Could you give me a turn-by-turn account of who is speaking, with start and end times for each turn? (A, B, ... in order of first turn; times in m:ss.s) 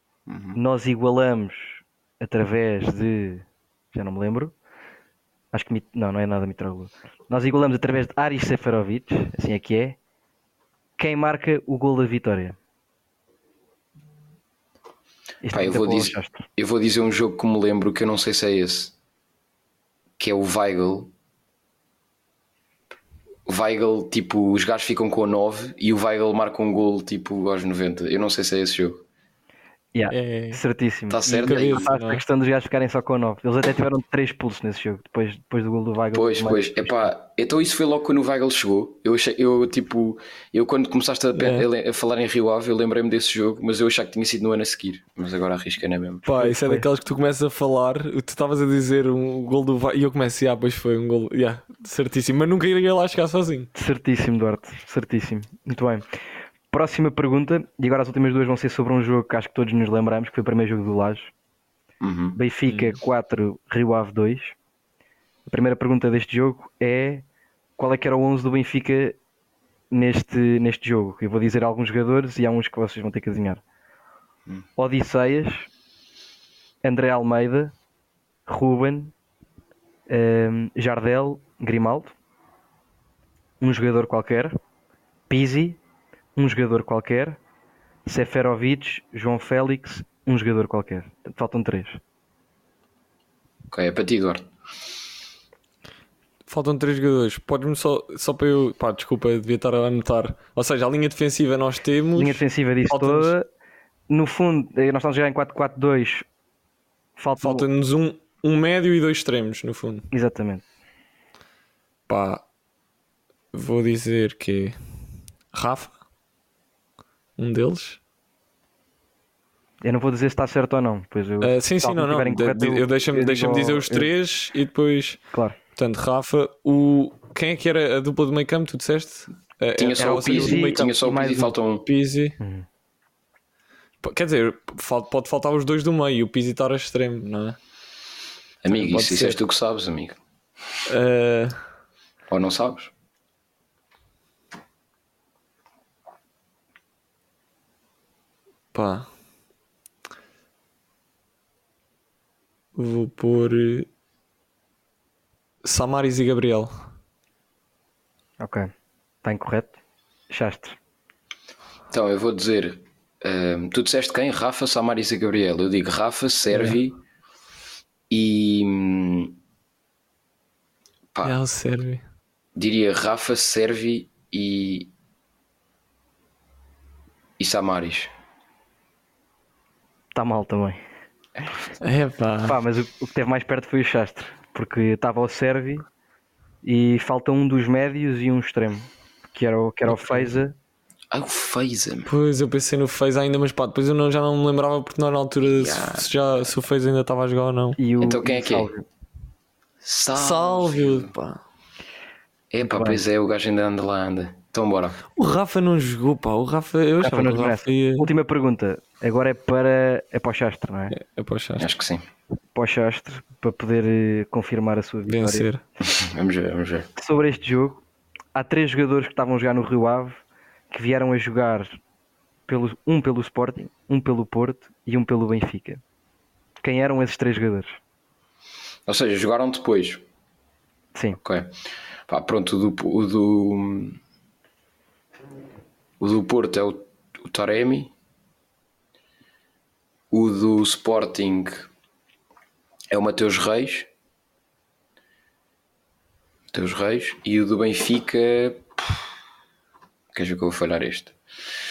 0:00.3-0:00.6 A
0:00.6-0:04.5 B
0:05.5-0:10.0 B
0:11.0-0:12.6 B
0:15.4-0:16.5 B
0:15.5-0:18.9 A
0:20.2-0:21.1 A
0:23.5-0:29.0 A
0:29.9-0:37.1 B
0:30.1-0:30.6 C
0:31.1-0:31.9 A
0:31.3-0:32.2 C
0:36.1-0:46.3 A
0:41.4-0:41.7 C
0:46.2-0:53.7 C
0:46.4-0:46.8 B
0:53.8-0:56.0 B
0:56.7-1:01.3 B
1:02.0-1:02.4 A
1:02.4-1:04.6 B
1:05.5-1:07.3 B
1:07.8-1:09.2 B
1:09.9-1:13.6 B
1:14.8-1:15.7 B
1:16.8-1:17.8 B
1:18.5-1:19.1 B
1:20.1-1:22.1 B
1:23.6-1:24.6 B
1:25.3-1:25.8 B
1:26.4-1:27.4 B
1:28.1-1:32.0 B
1:33.7-1:34.5 A
1:36.5-1:43.3 C
1:42.2-1:43.5 B
1:44.1-1:46.2 B
1:47.2-1:47.7 B
1:47.4-1:50.1 C
1:50.1-1:50.6 B
1:52.1-1:52.4 C
1:53.5-1:54.8 C
1:55.5-1:55.9 C
1:57.4-1:58.0 C
1:59.8-2:04.1 B
2:01.4-2:05.2 C
2:05.8-2:10.9 C
2:09.8-2:11.9 A
2:10.0-2:11.5 B
2:11.9-2:12.4 C
2:12.4-2:12.7 B
2:14.0-2:17.6 C
2:18.6-2:20.2 A
2:18.7-2:19.4 C
2:20.9-2:21.6 C
2:22.3-2:22.9 A
2:28.7-2:29.1 C
2:32.8-2:33.9 C
2:35.6-2:36.7 C
2:38.4-2:38.7 B
2:39.2-2:39.8 B
2:40.3-2:40.8 B
2:41.9-2:47.0 A
2:46.5-2:46.8 C
2:48.1-2:49.4 A
2:51.2-2:52.0 C
2:52.6-2:54.9 A
2:57.4-2:58.1 A
3:00.2-3:00.8 B
3:01.8-3:02.6 C
3:02.4-3:05.9 B
3:06.6-3:10.6 B
3:09.9-3:10.3 C
3:11.1-3:12.1 A
3:12.1-3:17.8 C
3:15.5-3:16.1 A
3:17.8-3:18.8 B
3:18.0-3:18.7 A
3:19.8-3:21.1 A
3:20.2-3:21.4 C
3:22.5-3:25.0 A
3:22.6-3:23.0 B
3:25.2-3:28.1 C
3:27.0-3:31.0 B
3:30.9-3:31.7 C
3:31.6-3:32.0 A
3:32.6-3:35.5 B
3:35.1-3:35.6 C
3:35.8-3:36.9 A
3:37.0-3:37.8 B
3:38.4-3:41.8 B
3:42.5-3:45.8 B
3:46.6-3:47.8 B
3:48.9-3:50.0 A
3:51.2-3:51.6 A
3:52.1-3:54.0 A
3:56.0-3:57.9 A
4:00.1-4:01.7 A
4:02.9-4:03.9 A
4:06.5-4:09.0 A
4:10.1-4:11.2 A